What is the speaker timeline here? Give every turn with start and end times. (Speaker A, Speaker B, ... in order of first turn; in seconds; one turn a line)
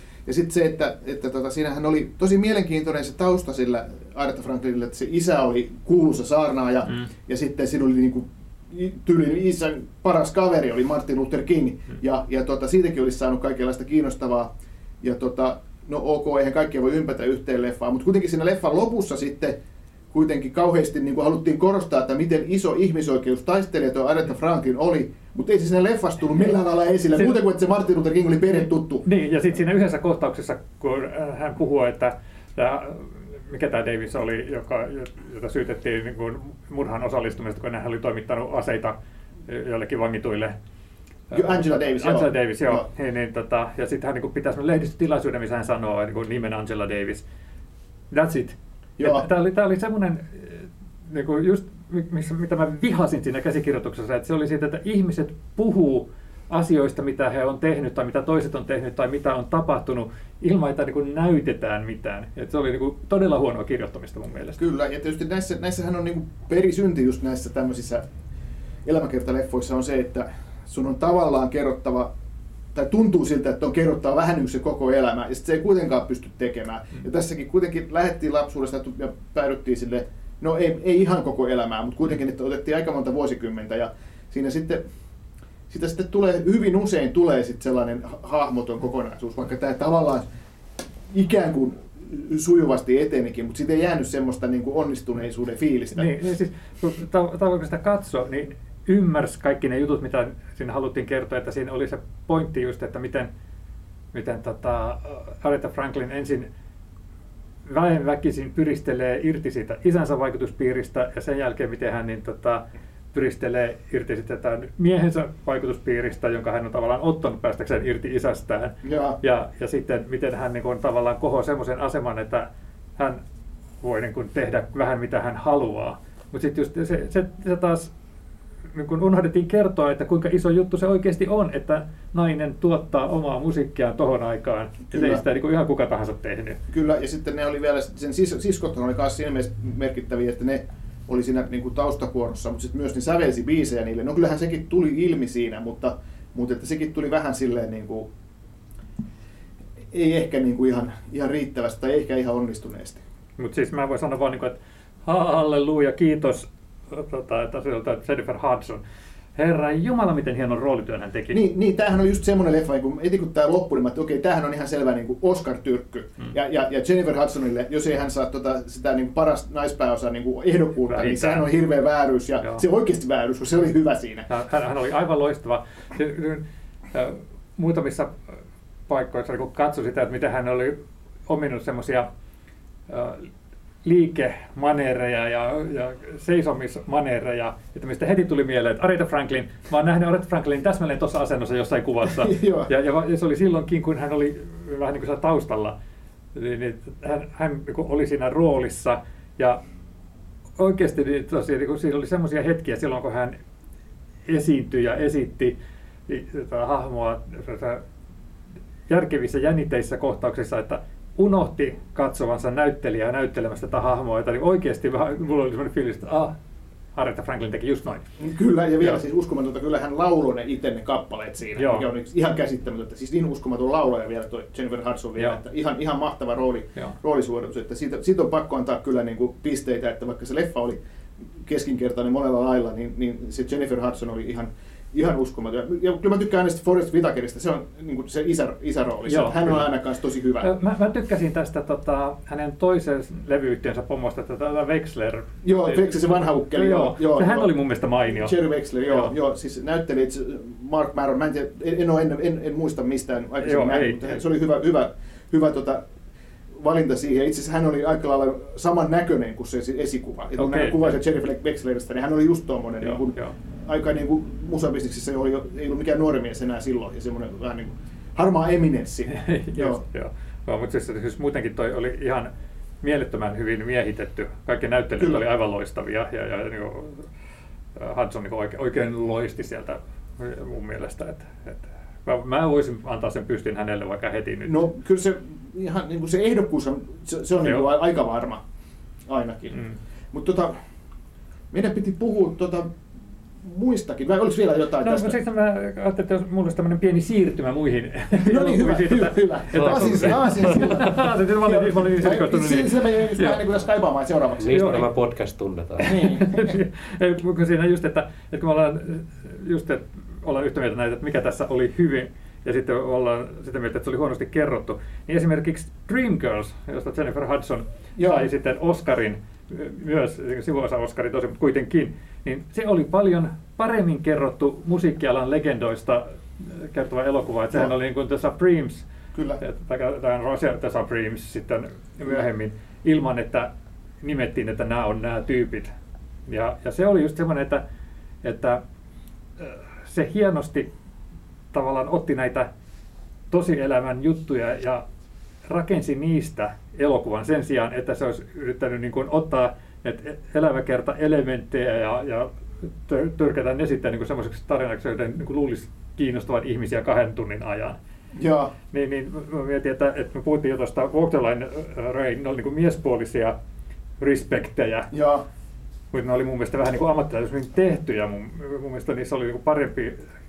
Speaker A: 0.2-19.6
Speaker A: 20.1-29.1
Speaker B: 29.0-39.0
Speaker B: 39.5-40.5
Speaker B: 41.3-47.2
Speaker A: 41.3-42.9
Speaker B: 48.1-64.6
Speaker A: 49.0-49.3
Speaker A: 64.6-68.1
Speaker A: 68.8-72.1
Speaker A: 72.7-84.8
Speaker A: 85.7-90.3
Speaker A: 91.1-96.1
Speaker B: 95.9-103.3
Speaker B: 104.1-106.5
Speaker B: 107.7-123.2
Speaker A: 118.8-119.2
Speaker B: 123.8-127.9
Speaker B: 128.7-136.6
Speaker A: 134.9-135.2
Speaker A: 136.7-148.1
Speaker A: 149.9-153.0
Speaker B: 153.4-158.8
Speaker B: 159.4-161.4
Speaker A: 161.3-174.3
Speaker B: 170.8-171.5
Speaker B: 174.3-178.2
Speaker B: 178.9-182.1
Speaker B: 182.9-183.3
Speaker B: 183.8-195.8
Speaker A: 192.1-192.7
Speaker B: 196.3-199.6
Speaker B: 200.6-203.4
Speaker B: 204.3-205.6
Speaker B: 206.1-207.8
Speaker B: 208.9-216.3
Speaker B: 216.9-218.1
Speaker A: 218.2-230.8
Speaker B: 221.6-221.9
Speaker A: 231.4-240.5
Speaker B: 239.1-239.7
Speaker B: 240.4-248.3
Speaker A: 245.4-247.5
Speaker A: 248.1-255.8
Speaker B: 248.9-249.1
Speaker B: 253.4-254.2
Speaker A: 256.6-269.8
Speaker B: 260.4-261.0
Speaker B: 262.8-263.4
Speaker B: 269.1-272.3
Speaker B: 272.8-277.1
Speaker B: 277.8-284.7
Speaker A: 284.4-288.4
Speaker A: 289.1-289.6
Speaker A: 290.1-290.6
Speaker A: 291.5-292.8
Speaker A: 293.4-295.2
Speaker B: 294.8-303.4
Speaker A: 298.1-304.9
Speaker C: 299.6-300.4
Speaker C: 304.4-306.0
Speaker B: 304.5-304.9
Speaker A: 305.8-306.6
Speaker B: 305.9-328.9
Speaker A: 318.0-318.3
Speaker A: 329.1-329.4
Speaker B: 329.4-333.5
Speaker B: 334.0-335.7
Speaker B: 336.3-337.6
Speaker B: 338.2-338.6
Speaker B: 339.4-340.7
Speaker B: 341.5-342.5
Speaker B: 343.3-344.8
Speaker B: 345.5-357.8
Speaker A: 358.2-358.5
Speaker B: 358.7-363.4
Speaker B: 364.0-364.9
Speaker A: 364.9-365.2
Speaker B: 365.9-370.0